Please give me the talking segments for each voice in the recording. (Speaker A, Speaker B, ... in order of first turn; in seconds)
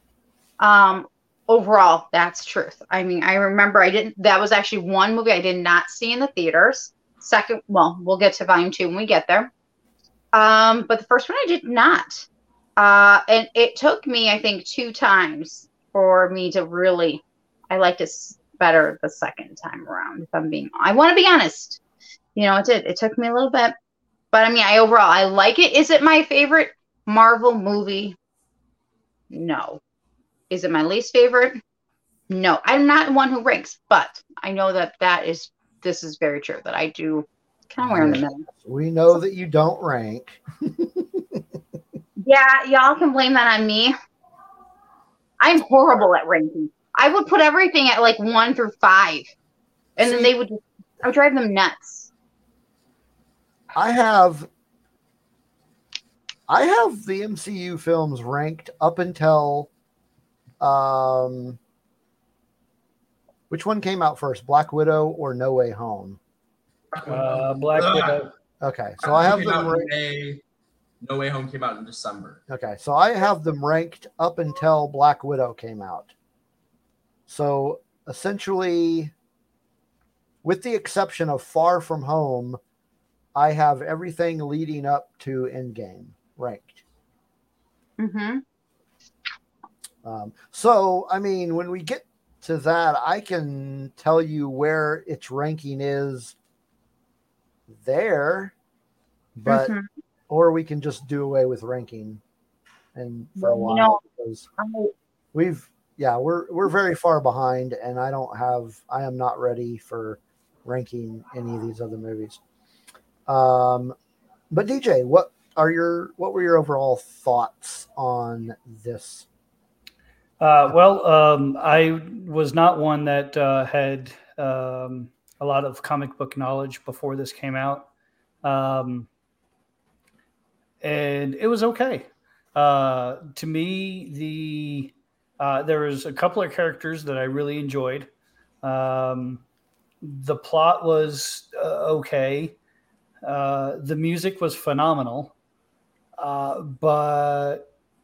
Speaker A: 0.6-9.5, 10.3-12.2, 12.8-21.8, 22.4-23.7, 24.3-28.1, 29.3-29.8, 30.5-31.6, 32.3-38.4, 42.2-43.9, 45.4-49.3, 50.0-52.1, 88.0-88.4, 99.5-99.9, 103.3-104.0, 104.6-104.9
Speaker B: 37.8-41.5, 50.0-50.3, 53.7-54.5, 56.5-59.7, 60.6-61.6, 63.5-66.2, 68.6-69.9, 72.5-76.1, 77.3-79.1, 80.4-82.6, 83.3-86.8, 90.0-96.3, 97.7-98.5, 99.3-99.7, 100.3-102.2, 102.9-104.5, 105.3-112.4, 113.3-113.9, 114.5-119.3
Speaker C: 66.9-68.2, 69.0-70.4, 71.0-72.4
Speaker D: 67.0-68.3, 120.4-127.9, 128.4-129.1, 130.8-138.1, 138.6-139.4, 140.0-142.6, 143.2-145.3, 146.2-147.6